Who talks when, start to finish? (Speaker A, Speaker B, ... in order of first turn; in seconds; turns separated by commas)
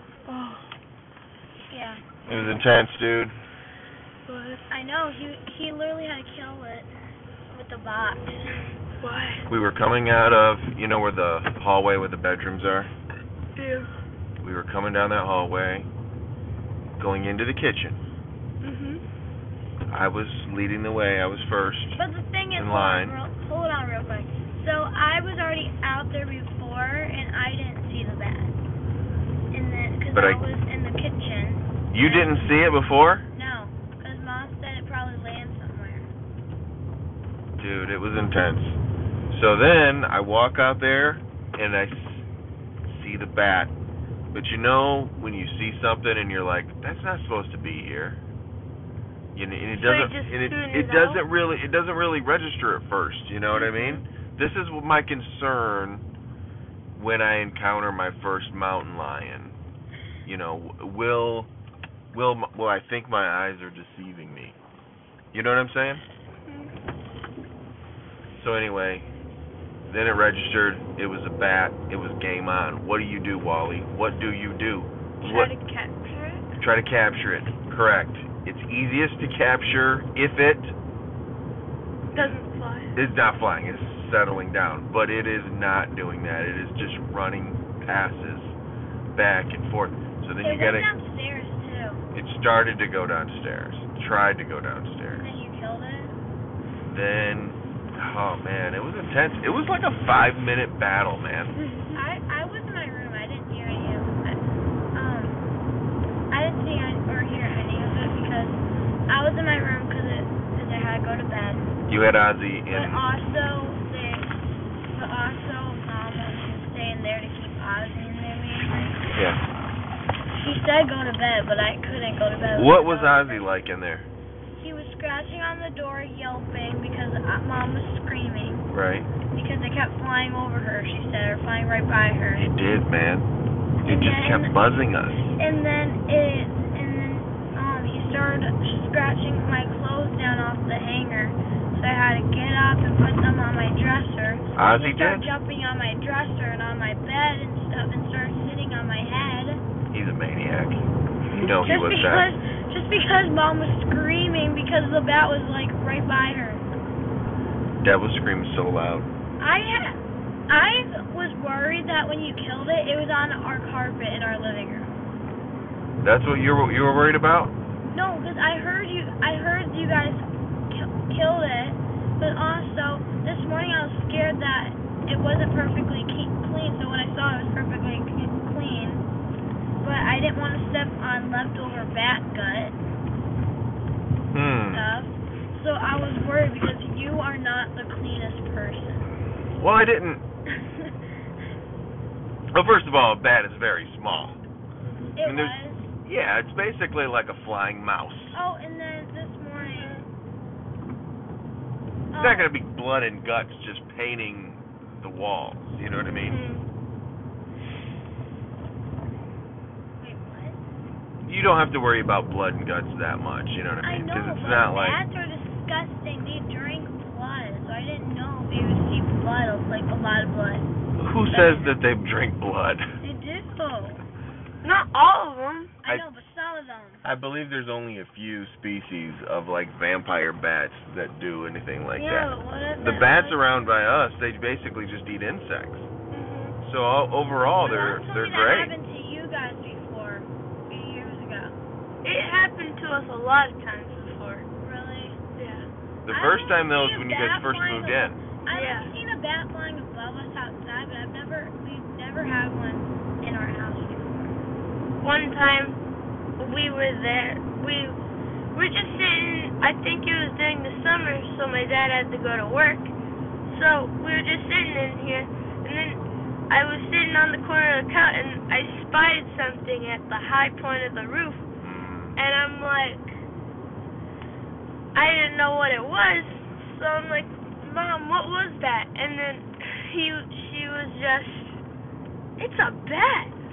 Speaker A: 0.3-0.7, Speaker B: 1.7-2.0, Speaker C: 2.3-3.4, Speaker A: 4.3-4.6, Speaker B: 4.7-6.9, Speaker B: 7.5-8.6, Speaker A: 9.0-9.5, Speaker C: 9.5-12.9, Speaker A: 13.6-13.9, Speaker C: 14.4-15.9, Speaker C: 17.0-18.0, Speaker A: 18.6-19.0, Speaker C: 19.9-22.0, Speaker B: 22.0-28.6, Speaker C: 22.5-23.1, Speaker B: 29.5-32.7, Speaker C: 30.1-30.4, Speaker C: 31.9-33.3, Speaker B: 33.3-36.1, Speaker C: 37.6-38.8, Speaker C: 39.3-42.3, Speaker C: 42.9-43.7, Speaker C: 44.3-48.2, Speaker C: 49.4-56.0, Speaker A: 49.7-51.2, Speaker A: 53.5-54.0, Speaker C: 57.0-59.6, Speaker C: 60.2-61.5, Speaker C: 62.1-64.6, Speaker C: 65.3-66.0, Speaker A: 66.5-66.7, Speaker C: 68.3-69.0, Speaker C: 69.9-75.5, Speaker A: 75.2-76.5, Speaker C: 76.6-80.7, Speaker C: 82.1-82.4, Speaker A: 82.1-82.9, Speaker C: 83.0-88.6, Speaker C: 89.1-90.9, Speaker B: 90.4-92.0, Speaker C: 92.1-95.3, Speaker B: 95.1-96.2, Speaker C: 96.9-101.6, Speaker B: 101.9-105.4, Speaker B: 106.3-111.8, Speaker C: 111.9-113.0, Speaker B: 112.7-119.0, Speaker C: 119.2-119.5, Speaker B: 120.4-123.5, Speaker C: 122.5-124.1, Speaker B: 124.5-128.7, Speaker C: 128.7-129.1, Speaker B: 129.3-132.5, Speaker C: 132.4-133.3, Speaker B: 133.8-134.6, Speaker C: 133.8-135.3, Speaker B: 135.3-149.6, Speaker C: 144.6-145.3, Speaker C: 149.9-152.3, Speaker B: 151.6-156.6, Speaker C: 157.8-159.1, Speaker B: 159.4-164.9, Speaker C: 166.0-167.5, Speaker B: 167.8-179.1, Speaker B: 179.8-182.8, Speaker C: 184.3-184.9, Speaker B: 184.7-189.1, Speaker C: 189.6-190.2, Speaker B: 190.6-191.0, Speaker C: 192.5-194.4, Speaker A: 194.9-195.2, Speaker B: 195.2-195.9, Speaker C: 195.2-198.4, Speaker B: 198.3-200.0, Speaker A: 199.5-200.1, Speaker B: 202.1-202.5, Speaker C: 202.1-206.4, Speaker A: 206.0-206.7, Speaker B: 210.0-210.6, Speaker C: 211.2-215.0, Speaker B: 213.8-221.8, Speaker C: 221.0-222.9, Speaker B: 223.0-224.0, Speaker A: 224.6-225.7, Speaker B: 225.8-227.1, Speaker C: 227.0-235.9, Speaker B: 232.0-233.5, Speaker A: 236.1-236.6, Speaker C: 236.6-238.7, Speaker B: 237.6-241.6, Speaker A: 242.0-244.5, Speaker B: 244.6-245.2, Speaker A: 245.4-245.7, Speaker C: 246.1-248.2, Speaker B: 246.1-254.4, Speaker A: 248.5-248.9, Speaker A: 255.0-255.8, Speaker A: 256.4-258.0, Speaker A: 258.5-262.9, Speaker A: 263.5-271.4, Speaker C: 271.6-272.2, Speaker A: 272.2-273.1, Speaker A: 274.9-281.6, Speaker A: 282.4-283.4